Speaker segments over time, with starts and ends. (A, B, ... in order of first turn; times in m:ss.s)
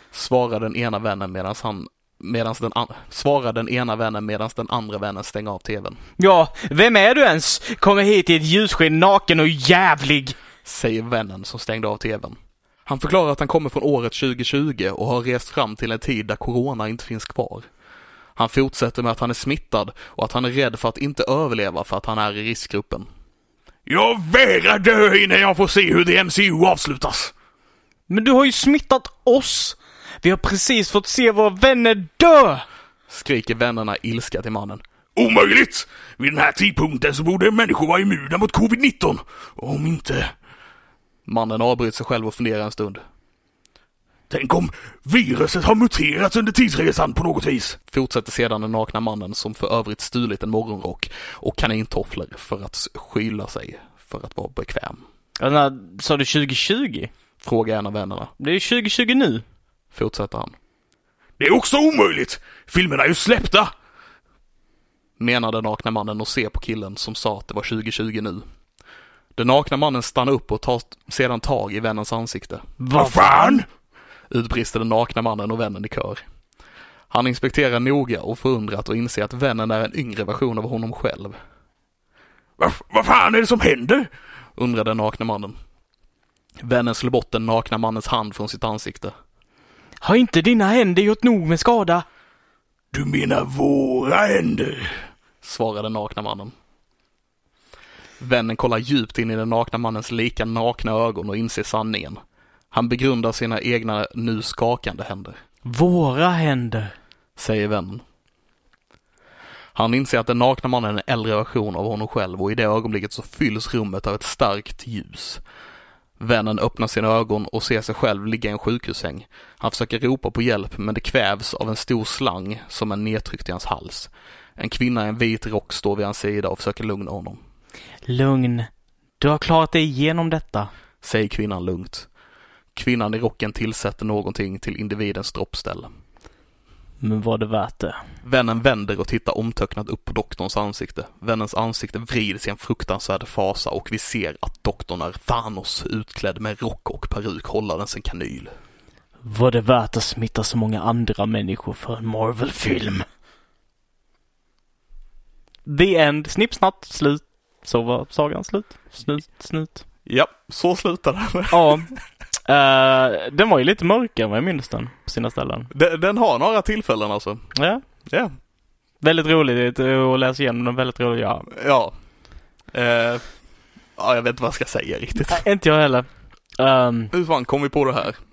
0:00.1-0:06.0 A
0:06.2-0:10.4 B
0:10.6-0:17.7 A
0:18.4-0:23.1 A
0:23.8-0:27.3 C
0:28.1-0:32.6 B
0:33.1-0:34.8 A
0:35.2-0:40.3 C
0:41.2-0:43.0 A
0:44.3-0:47.8 C
0:47.9-0:55.0 A
0:55.4-0:57.1 B
0:57.4-0:58.3 A
0:58.4-0:59.4 B
0:59.9-1:00.6 A
1:01.4-1:03.7 C
1:05.2-1:08.4 A
1:09.4-1:12.6 A
1:12.8-1:13.6 B
1:13.0-1:13.6 C
1:14.3-1:16.2 A
1:17.1-1:21.4 A
1:22.6-1:24.1 C
1:24.6-1:25.6 A
1:26.6-1:29.1 A
1:30.0-1:32.0 B
1:32.9-1:35.0 C
1:35.4-1:36.5 A
1:38.2-1:42.2 A
1:42.7-1:45.4 A
1:45.6-1:46.9 B
1:47.4-1:48.0 A
1:49.7-1:55.4 A
1:56.2-2:07.4 A
2:08.0-2:08.7 B
2:09.2-2:10.7 B
2:11.0-2:12.1 A
2:12.7-2:15.9 A
2:17.0-2:18.0 B
2:18.2-2:28.5 A
2:29.2-2:33.0 B
2:35.6-2:39.8 B
2:40.0-2:41.8 A
2:41.5-2:41.9 B
2:42.4-2:45.7 B
2:45.7-2:47.5 A
2:47.5-2:47.8 B
2:48.0-2:48.3 A
2:49.0-2:51.6 B
2:51.5-2:51.9 A
2:52.7-2:53.4 A
2:53.9-2:55.4 A
2:55.3-2:57.1 B
2:57.1-2:58.2 A